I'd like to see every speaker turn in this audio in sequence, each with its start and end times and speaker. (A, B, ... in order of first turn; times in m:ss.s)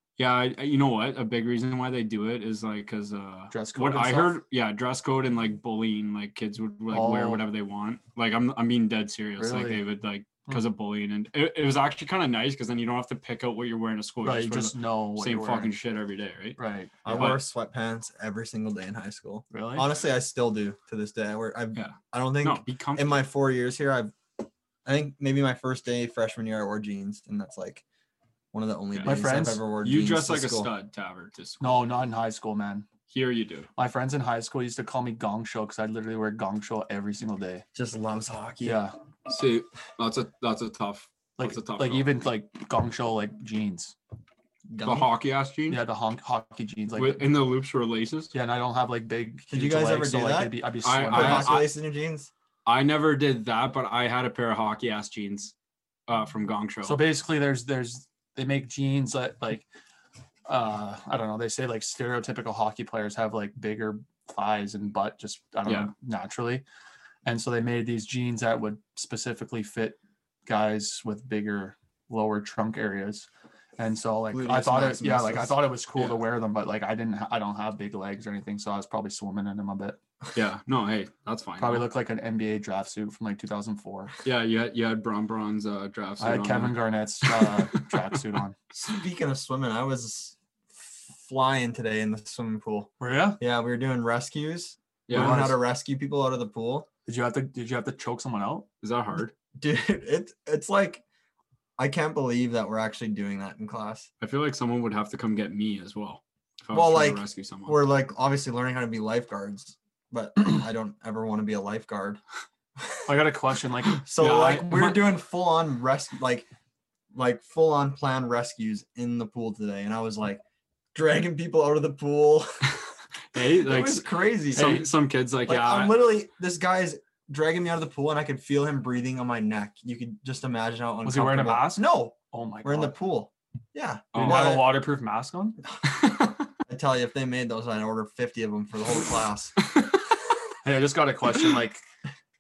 0:00.2-0:17.4 A
0:03.5-0:04.4 B
0:06.9-0:07.4 B
0:09.4-0:09.8 B
0:14.2-0:15.7 B
0:16.6-0:17.4 B
0:17.0-0:24.2 C
0:19.5-0:19.8 B
0:21.7-0:23.2 A
0:24.8-0:27.8 C
0:28.5-0:30.7 C
0:28.9-0:29.2 A
0:29.0-0:29.6 B
0:29.8-0:31.8 A
0:31.6-0:32.8 B
0:33.1-0:33.7 A
0:33.8-0:37.6 B
0:37.7-0:38.8 C
0:38.6-0:38.9 B
0:39.3-0:42.1 A
0:41.4-0:43.9 B
0:44.7-0:45.1 C
0:44.8-0:45.8 A
0:45.7-0:47.3 B
0:47.0-0:48.3 A
0:48.3-0:51.6 B
0:49.5-0:52.3 C
0:50.8-0:51.7 A
0:52.6-0:55.5 A
0:56.1-0:57.0 A
0:56.8-0:59.6 B
1:00.5-1:06.6 B
1:05.6-1:05.9 A
1:07.2-1:13.3 B
1:13.8-1:20.0 B
1:14.3-1:15.6 C
1:15.9-1:16.2 A
1:20.3-1:21.8 A
1:21.6-1:24.1 B
1:24.2-1:28.2 A
1:26.2-1:28.6 B
1:28.7-1:36.9 C
1:33.0-1:33.4 B
1:35.1-1:35.6 A
1:35.1-1:35.5 B
1:37.1-1:38.6 B
1:38.8-1:39.3 A
1:39.6-1:41.0 C
1:41.8-1:44.1 C
1:44.2-1:47.8 A
1:46.7-1:52.2 C
1:53.1-1:54.0 B
1:54.0-1:56.5 C
1:54.2-1:55.0 A
1:57.1-2:00.4 C
2:00.9-2:02.7 C
2:03.3-2:06.1 A
2:03.3-2:04.9 C
2:04.6-2:04.8 B
2:05.4-2:14.6 C
2:11.0-2:13.0 B
2:14.1-2:14.6 A
2:14.2-2:15.6 B
2:15.9-2:16.3 A
2:16.7-2:19.6 C
2:20.6-2:21.8 B